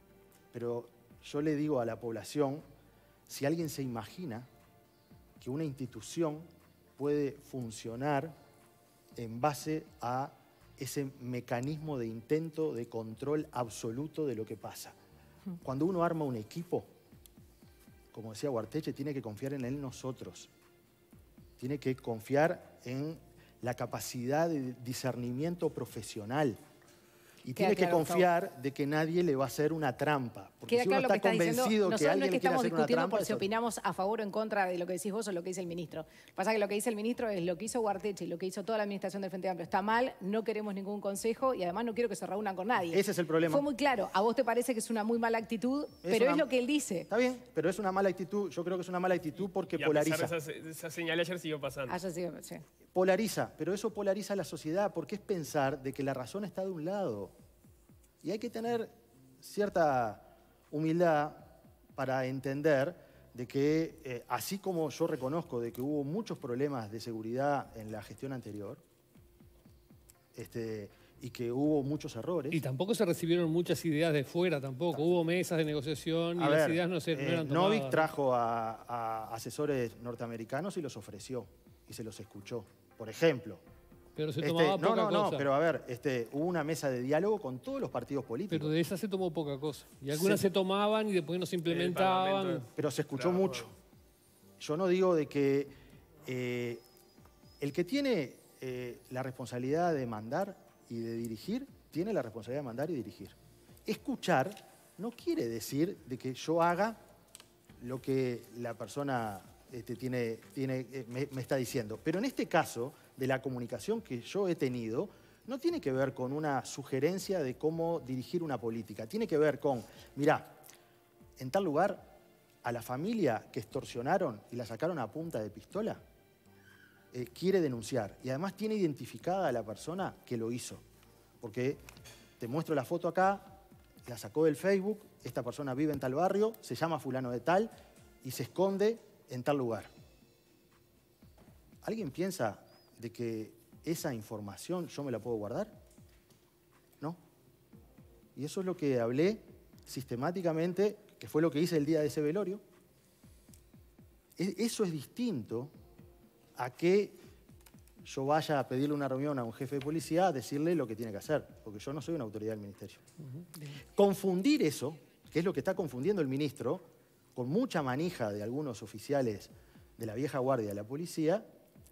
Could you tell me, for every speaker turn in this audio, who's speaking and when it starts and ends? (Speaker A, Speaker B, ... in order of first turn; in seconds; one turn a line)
Speaker A: 0.5-2.6
Speaker A: 3.3-4.5
Speaker A: 5.4-8.4
Speaker A: 9.2-15.0
Speaker A: 15.6-16.9
Speaker A: 18.1-20.5
Speaker A: 21.6-26.6
Speaker A: 27.4-33.5
Speaker B: 27.6-28.3
Speaker B: 30.7-47.1
Speaker A: 42.9-43.6
Speaker A: 46.0-46.5
Speaker A: 47.1-50.3
Speaker C: 49.8-52.0
Speaker B: 51.9-52.6
Speaker A: 52.9-57.3
Speaker A: 58.2-68.8
Speaker A: 70.3-72.6
Speaker D: 72.5-78.1
Speaker A: 76.4-83.6
Speaker D: 84.2-85.5
Speaker A: 84.4-88.7
Speaker D: 88.5-92.7
Speaker A: 90.1-90.4
Speaker C: 91.7-92.7
Speaker A: 92.8-93.8
Speaker C: 93.2-93.6
Speaker A: 94.6-96.8
Speaker A: 97.6-107.0
Speaker A: 107.8-120.6
Speaker A: 121.4-126.0
Speaker A: 127.1-130.8
Speaker A: 131.4-131.8
Speaker A: 132.4-139.9
Speaker A: 141.8-145.8
Speaker A: 148.4-152.6
Speaker A: 154.4-155.7
Speaker A: 156.6-157.2
Speaker A: 158.0-163.0
Speaker A: 163.8-171.5